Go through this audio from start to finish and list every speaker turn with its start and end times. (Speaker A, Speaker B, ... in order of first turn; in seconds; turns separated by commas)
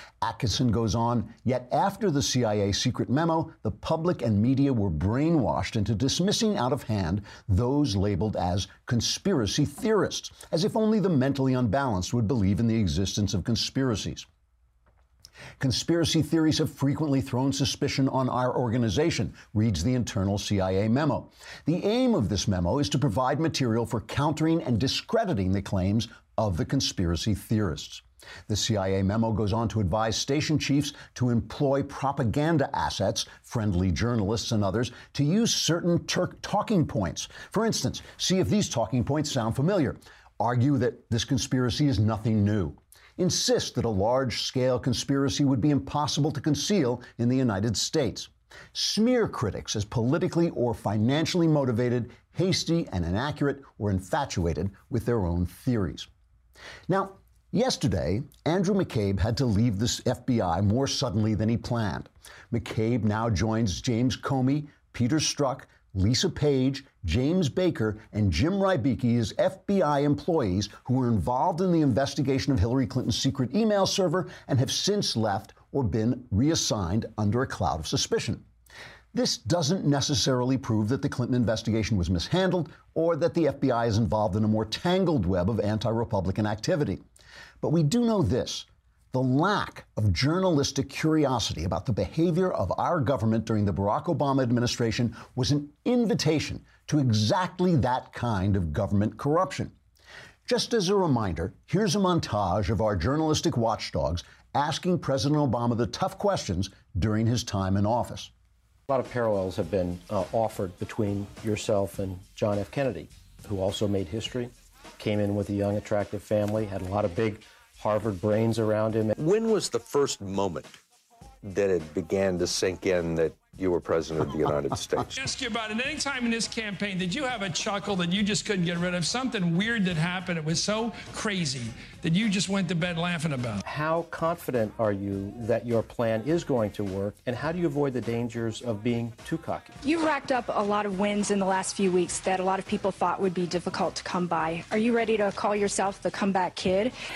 Speaker A: 0.2-14.3, Speaker A: 15.6-56.1, Speaker A: 56.9-78.4, Speaker A: 79.1-87.0, Speaker A: 87.6-99.7, Speaker A: 100.5-108.3, Speaker B: 108.9-119.2, Speaker C: 119.2-120.8, Speaker C: 121.4-125.1, Speaker D: 125.2-133.6, Speaker B: 133.6-139.8, Speaker E: 139.8-146.9